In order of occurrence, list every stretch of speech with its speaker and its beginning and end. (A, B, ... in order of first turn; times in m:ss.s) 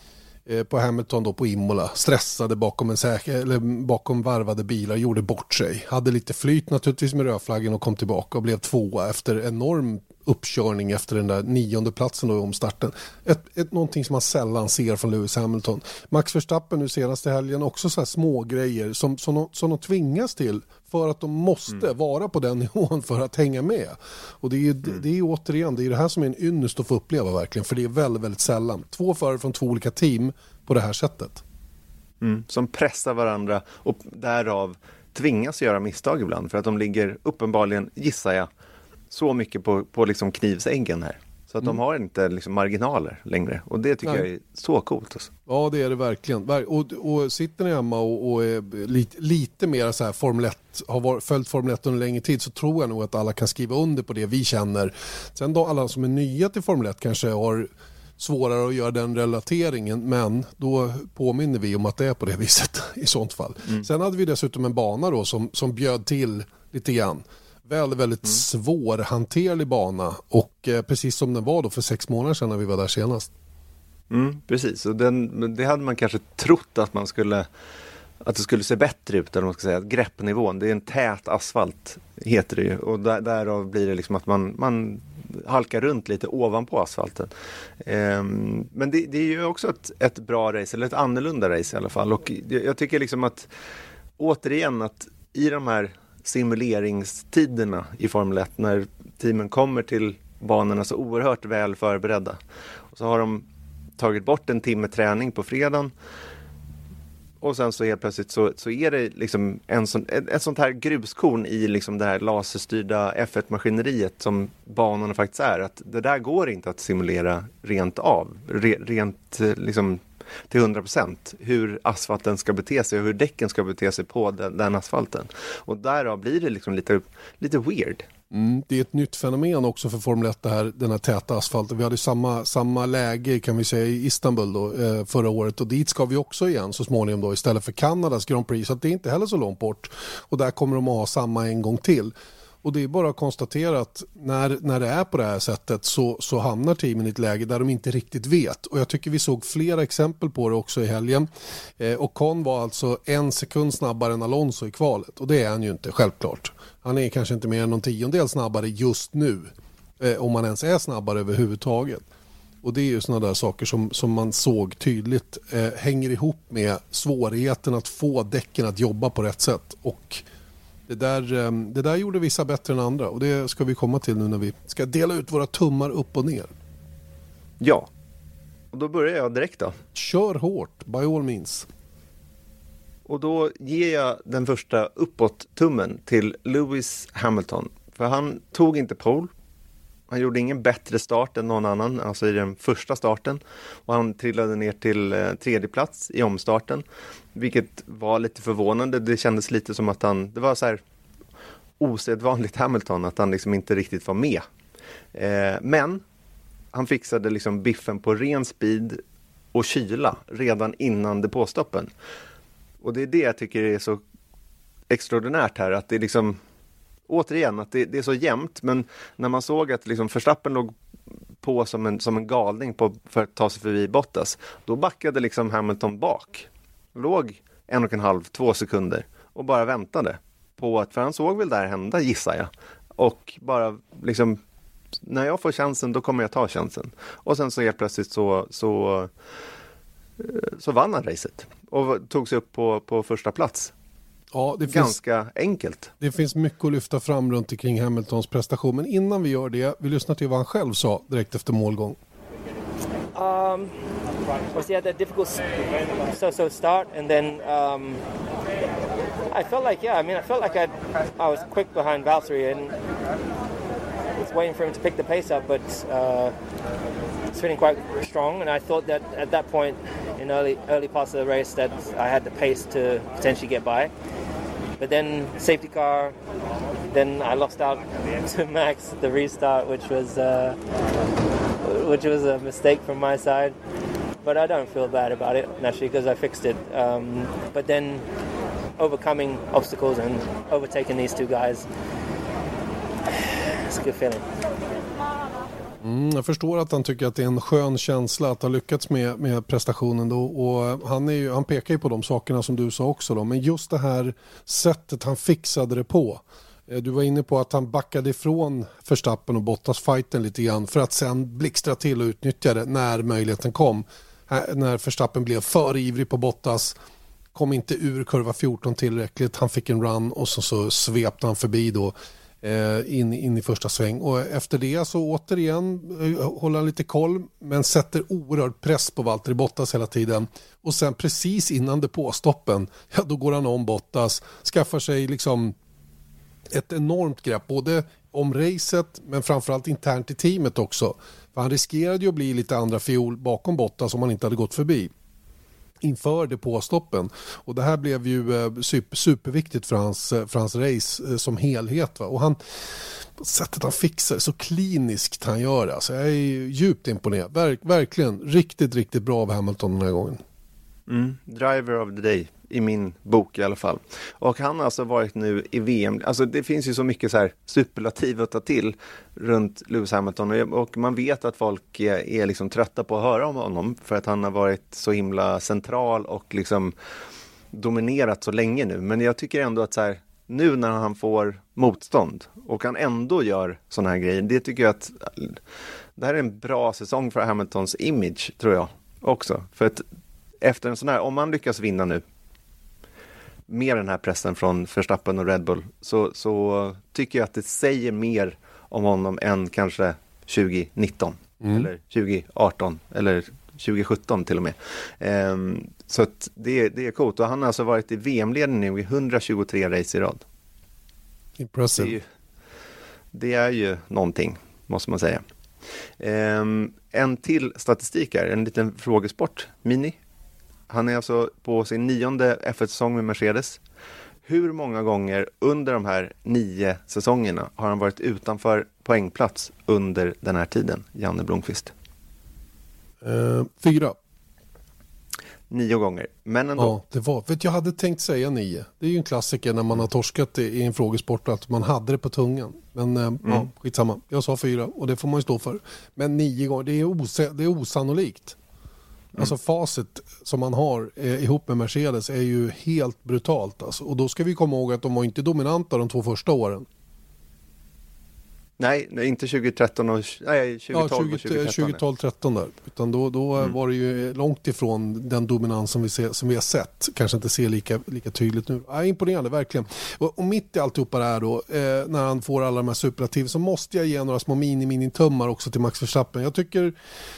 0:00.4-0:31.4 A
0:32.2-0:38.5 B
0:39.1-0:45.3 B
0:45.5-1:13.3 A
1:14.1-1:17.5 B
1:18.2-1:33.5 B
1:34.2-1:42.4 B
1:42.9-1:43.4 B
1:44.0-1:45.9 B
1:47.4-2:08.0 B
2:08.3-2:31.3 A
2:31.8-2:42.0 A
2:42.6-2:50.2 A
2:50.9-2:56.5 A
2:57.6-2:57.9 B
2:58.7-2:59.8 B
2:59.9-3:01.7 A
3:03.0-3:09.3 B
3:10.1-3:20.8 B
3:21.8-3:24.4 B
3:25.1-3:26.0 B
3:26.7-3:29.0 B
3:29.5-3:31.9 B
3:32.8-3:34.0 B
3:34.9-3:36.4 B
3:37.1-3:40.7 B
3:41.4-3:54.4 B
3:55.0-3:59.1 B
4:00.2-4:03.7 B
4:04.3-4:05.0 A
4:04.7-4:05.9 B
4:06.0-4:12.0 A
4:13.1-4:13.7 C
4:14.5-4:15.4 C
4:16.1-4:18.0 C
4:19.3-4:22.7 C
4:24.2-4:26.3 C
4:27.3-4:33.9 C
4:34.8-4:36.1 C
4:36.9-4:40.6 C
4:41.6-4:43.6 C
4:44.2-4:48.0 C
4:48.8-4:51.7 C
4:53.7-4:54.2 C
4:55.8-5:16.8 A
5:17.3-5:35.5 A
5:36.5-5:44.9 A
5:45.8-5:52.4 A
5:53.2-6:00.2 A
6:00.9-6:16.7 B
6:17.5-6:25.4 B
6:26.0-6:29.8 B
6:30.4-6:32.0 B
6:33.5-6:50.2 B
6:41.4-6:41.7 A
6:51.4-6:52.0 A
6:51.8-6:52.0 B
6:53.1-6:55.2 B
6:56.0-7:00.0 B
7:00.7-7:03.6 B
7:04.2-7:11.7 B
7:13.0-7:13.9 A
7:15.5-7:16.8 B
7:16.6-7:28.4 A
7:29.1-7:36.6 A
7:38.6-7:41.8 B
7:40.7-7:56.7 A